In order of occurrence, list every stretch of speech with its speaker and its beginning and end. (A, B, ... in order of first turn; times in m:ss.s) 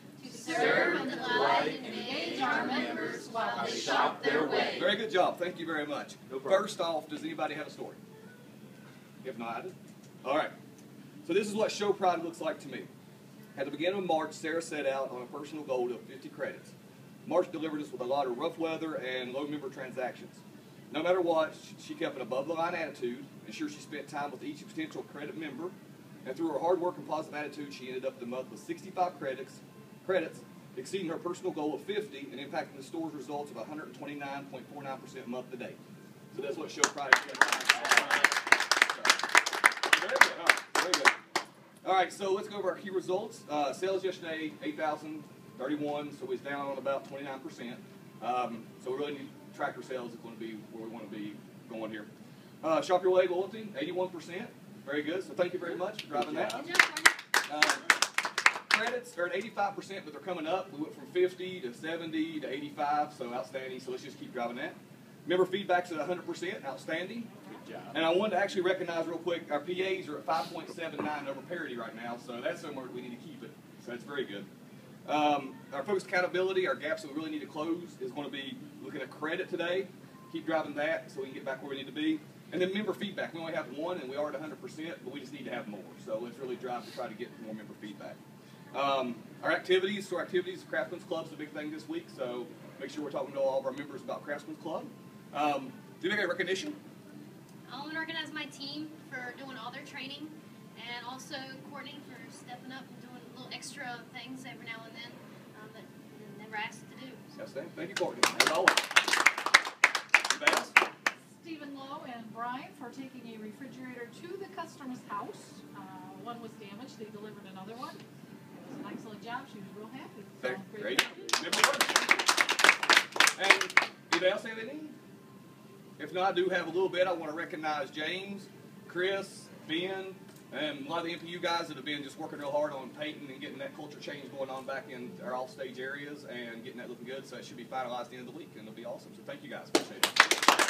0:00.2-0:04.8 A
0:00.3-0:04.8 B
0:00.5-0:04.9 C
0:04.7-0:08.0 D
0:06.3-0:06.6 C
0:09.2-0:10.5 D
0:11.2-0:12.9 D
0:13.5-0:25.7 D
0:26.2-0:35.8 D
0:36.3-0:39.2 D
0:39.8-0:41.2 D
0:41.8-0:52.1 D
0:52.6-0:56.6 D
0:56.1-0:56.7 C
0:56.5-0:57.2 A
0:57.4-0:58.0 D
0:58.7-1:07.3 D
1:07.3-1:07.6 B
1:07.7-1:07.9 C
1:07.9-1:14.5 D
1:15.0-1:28.2 D
1:28.7-1:36.8 D
1:37.7-1:47.3 A
1:47.3-1:48.9 D
1:50.2-1:50.7 D
1:51.3-2:01.5 B
2:00.4-2:02.3 D
2:03.4-2:05.0 D
2:06.0-2:20.3 D